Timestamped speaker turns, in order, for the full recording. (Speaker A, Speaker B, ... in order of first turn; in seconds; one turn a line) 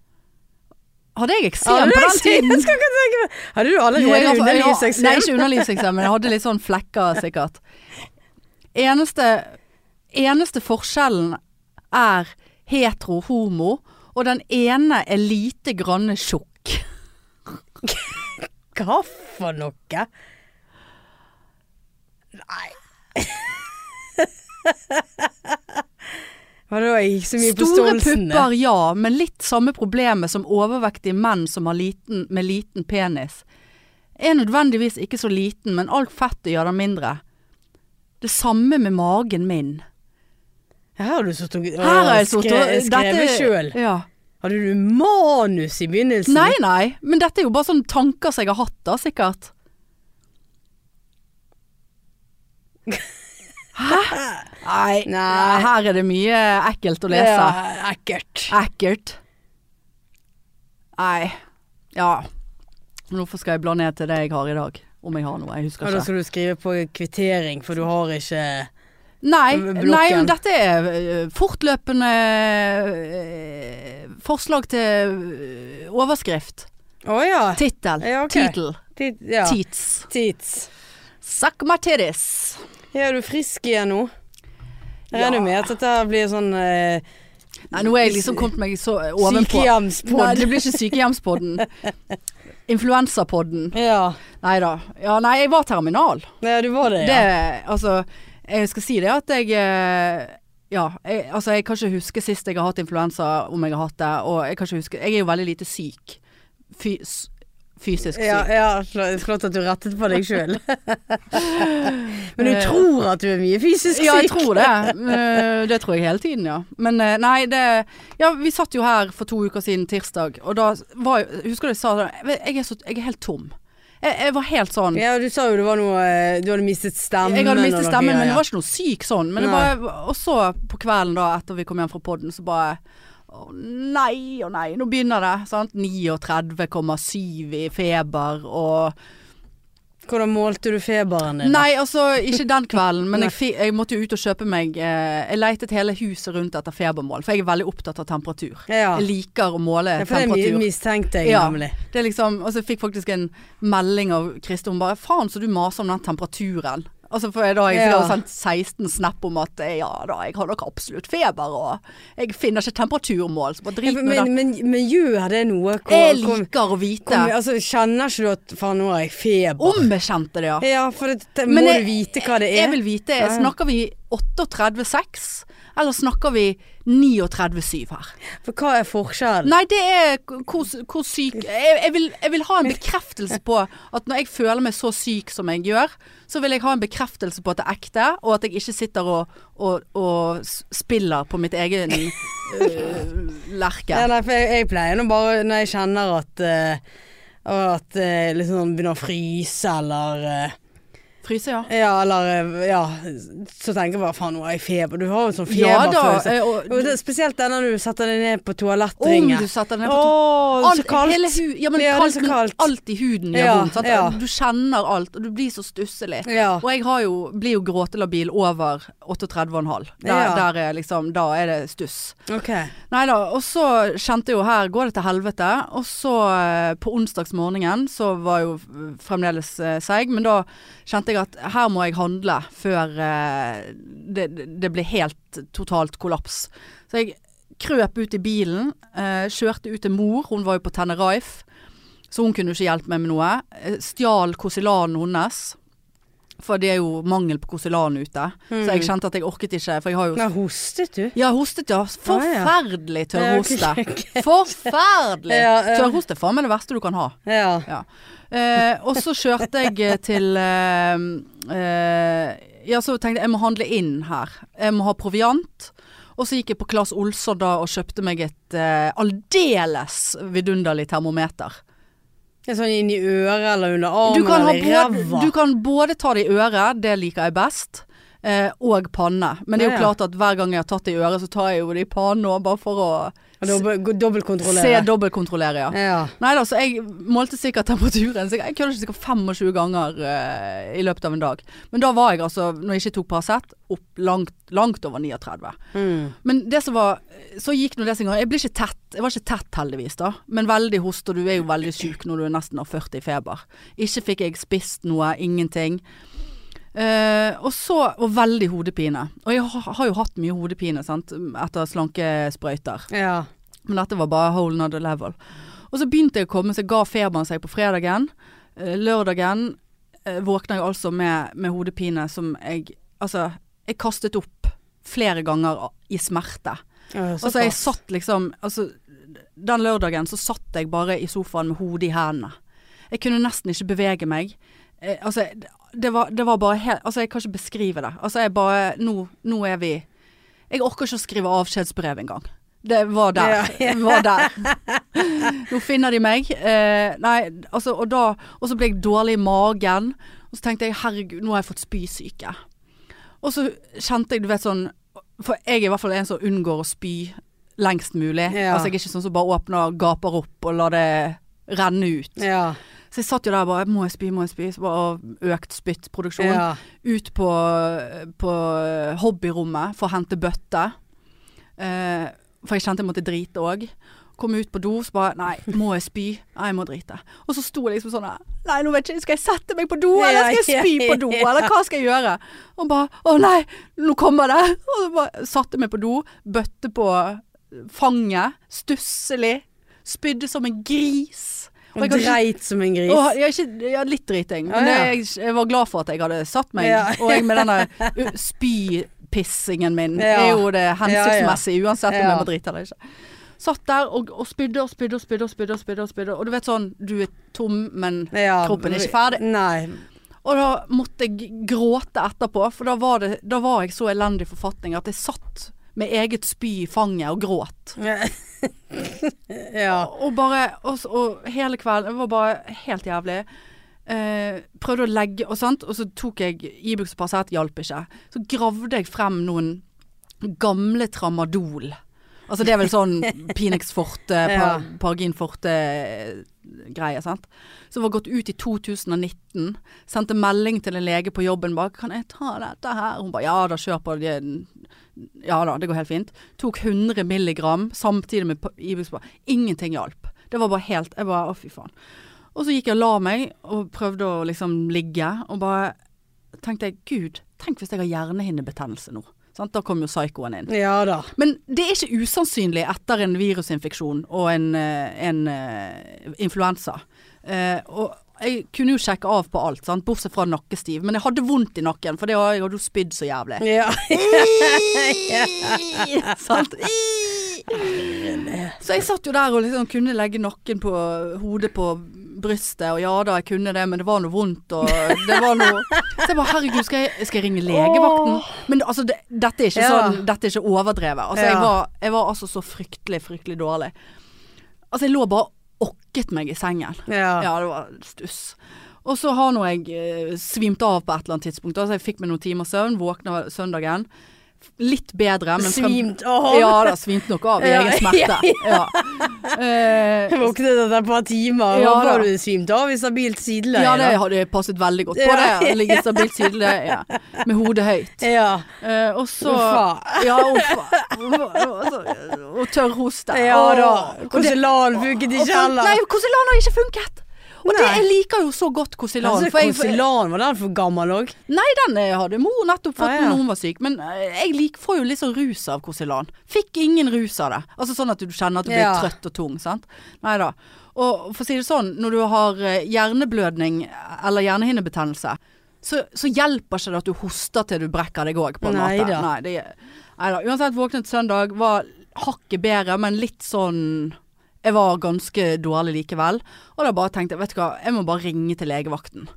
Speaker A: 1.1-2.8
Speaker B: 1.6-5.8
Speaker A: 4.0-7.6
Speaker A: 8.7-9.6
Speaker A: 10.1-11.4
Speaker A: 11.9-16.8
Speaker B: 17.8-18.1
Speaker B: 18.7-20.1
Speaker B: 22.4-23.6
Speaker B: 24.2-25.6
Speaker B: 26.7-28.5
Speaker A: 27.4-33.4
Speaker A: 34.2-37.2
Speaker A: 38.2-39.8
Speaker B: 41.0-43.8
Speaker A: 41.8-44.1
Speaker B: 44.4-46.5
Speaker A: 46.3-49.5
Speaker A: 53.7-57.6
Speaker B: 54.1-54.5
Speaker B: 55.0-55.7
Speaker B: 57.1-58.5
Speaker A: 58.5-59.2
Speaker A: 61.0-61.4
Speaker A: 61.9-62.3
Speaker A: 63.1-66.1
Speaker B: 65.8-68.7
Speaker A: 69.2-76.7
Speaker B: 69.5-70.3
Speaker B: 77.0-80.7
Speaker A: 77.6-78.8
Speaker A: 79.4-80.1
Speaker A: 81.2-82.6
Speaker B: 82.9-84.1
Speaker A: 85.1-85.7
Speaker B: 85.1-87.0
Speaker A: 87.7-91.7
Speaker B: 88.0-88.4
Speaker B: 89.2-90.8
Speaker A: 92.7-93.7
Speaker B: 93.7-94.2
Speaker A: 94.4-96.3
Speaker B: 96.4-97.2
Speaker A: 97.0-106.2
Speaker A: 106.7-108.5
Speaker B: 108.1-114.9
Speaker A: 111.4-112.8
Speaker A: 113.9-125.0
Speaker B: 124.9-128.4
Speaker A: 127.2-138.9
Speaker B: 129.4-129.7
Speaker B: 140.1-141.6
Speaker A: 141.4-150.7
Speaker B: 148.7-149.1
Speaker B: 150.0-151.8
Speaker A: 151.2-164.3
Speaker B: 157.7-158.2
Speaker B: 163.8-166.5
Speaker A: 165.8-167.3
Speaker B: 167.1-169.9
Speaker A: 169.6-170.7
Speaker B: 170.6-173.5
Speaker A: 171.5-178.1
Speaker B: 178.4-179.5
Speaker A: 179.4-194.1
Speaker B: 193.9-196.8
Speaker B: 197.4-200.5
Speaker A: 201.2-201.7
Speaker B: 201.7-212.7
Speaker A: 205.5-206.9
Speaker A: 209.0-222.2
Speaker B: 213.3-214.2
Speaker B: 216.2-216.6
Speaker B: 220.0-220.4
Speaker B: 222.3-222.7
Speaker A: 222.9-241.4
Speaker A: 242.1-245.6
Speaker A: 246.4-250.3
Speaker B: 248.5-248.9
Speaker B: 250.2-251.1
Speaker A: 251.1-271.6
Speaker B: 252.1-252.5
Speaker B: 253.2-254.7
Speaker B: 255.3-255.9
Speaker B: 257.2-257.7
Speaker B: 272.5-275.3
Speaker A: 274.0-283.6
Speaker B: 279.6-279.9
Speaker B: 283.4-284.9
Speaker A: 284.4-295.6
Speaker B: 285.7-286.1
Speaker B: 295.7-296.1
Speaker A: 296.2-305.8
Speaker A: 306.7-312.9
Speaker B: 312.9-313.3
Speaker A: 313.7-315.1
Speaker A: 315.7-326.6
Speaker B: 326.9-327.6
Speaker A: 327.2-332.3
Speaker A: 332.9-339.9
Speaker A: 340.5-352.3
Speaker B: 343.2-344.8
Speaker A: 353.2-362.2
Speaker B: 358.3-358.7
Speaker B: 362.2-362.6
Speaker A: 362.9-370.7
Speaker B: 366.2-366.6
Speaker A: 371.6-392.2
Speaker B: 380.0-381.5
Speaker B: 391.8-393.0
Speaker A: 392.9-402.8
Speaker B: 394.5-394.9
Speaker B: 396.6-398.0
Speaker B: 400.0-402.2
Speaker A: 403.4-409.2
Speaker B: 408.1-409.8
Speaker A: 410.2-417.8
Speaker B: 417.8-419.9
Speaker A: 419.7-423.3
Speaker A: 423.9-429.6
Speaker A: 430.2-431.8
Speaker A: 432.3-451.7
Speaker B: 434.2-434.6
Speaker A: 452.3-455.8
Speaker A: 456.4-460.5
Speaker B: 460.5-461.1
Speaker A: 461.1-478.0
Speaker B: 473.4-476.1
Speaker B: 477.6-478.6
Speaker A: 478.6-493.7
Speaker B: 484.7-486.0
Speaker B: 487.5-488.4
Speaker B: 489.5-490.0
Speaker B: 491.1-491.5
Speaker A: 494.7-503.9
Speaker B: 496.9-497.3
Speaker A: 504.6-510.3
Speaker B: 505.4-506.8
Speaker B: 507.4-509.3
Speaker B: 510.1-514.0
Speaker A: 511.5-512.1
Speaker A: 513.5-518.0
Speaker B: 514.9-516.7
Speaker B: 518.0-518.5
Speaker A: 518.6-529.8
Speaker B: 519.2-520.9
Speaker B: 523.1-525.8
Speaker B: 527.5-527.8
Speaker B: 529.0-531.1
Speaker A: 531.3-559.1
Speaker B: 532.8-533.2
Speaker B: 538.5-538.9
Speaker B: 548.4-549.1